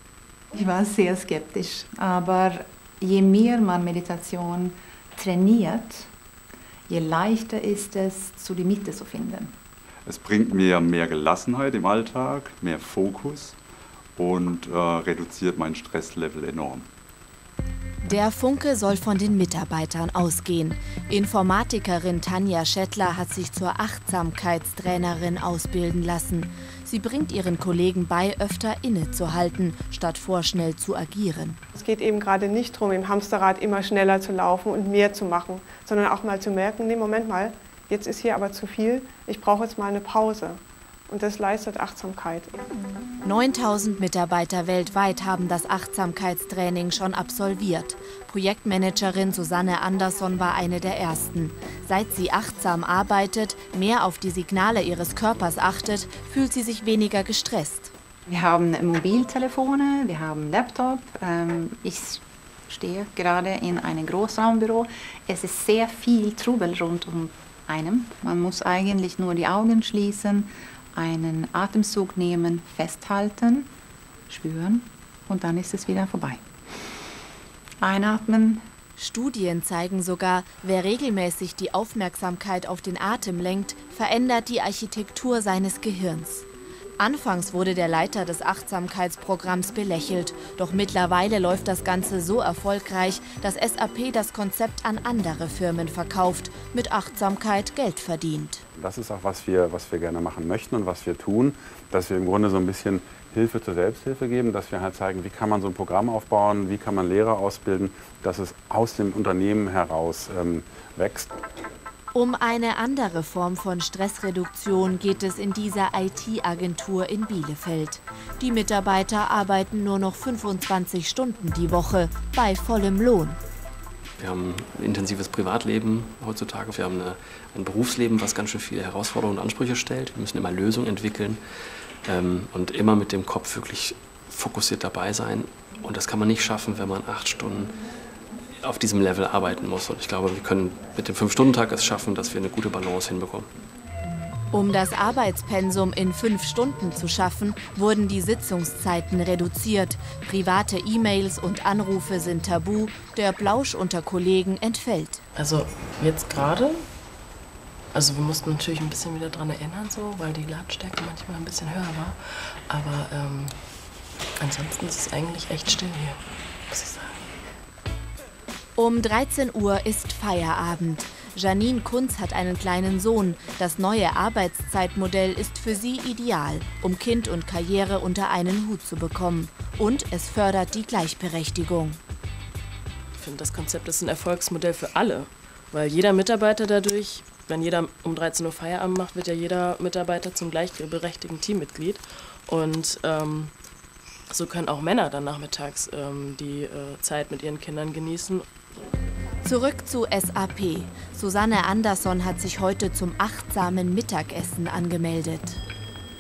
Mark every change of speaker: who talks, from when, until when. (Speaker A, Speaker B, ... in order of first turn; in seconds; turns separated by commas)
Speaker A: 0.5-6.1, Speaker A: 6.9-9.5, Speaker B: 10.1-13.5, Speaker C: 10.1-10.6, Speaker C: 12.1-13.5, Speaker B: 14.2-16.9, Speaker C: 14.2-14.8, Speaker D: 18.0-31.6, Speaker E: 31.7-42.7, Speaker D: 43.2-57.9, Speaker A: 58.3-73.7, Speaker A: 74.3-76.4, Speaker A: 77.8-78.7, Speaker D: 79.0-86.5, Speaker D: 87.0-98.6, Speaker C: 98.8-111.3, Speaker D: 112.1-123.4, Speaker F: 124.2-131.5, Speaker F: 132.0-137.7, Speaker F: 138.6-143.5, Speaker D: 144.5-155.2, Speaker G: 155.3-156.9, Speaker G: 157.9-163.7, Speaker G: 164.4-167.3, Speaker D: 168.8-182.0, Speaker G: 183.2-193.5, Speaker G: 194.3-198.5, Speaker D: 199.4-205.6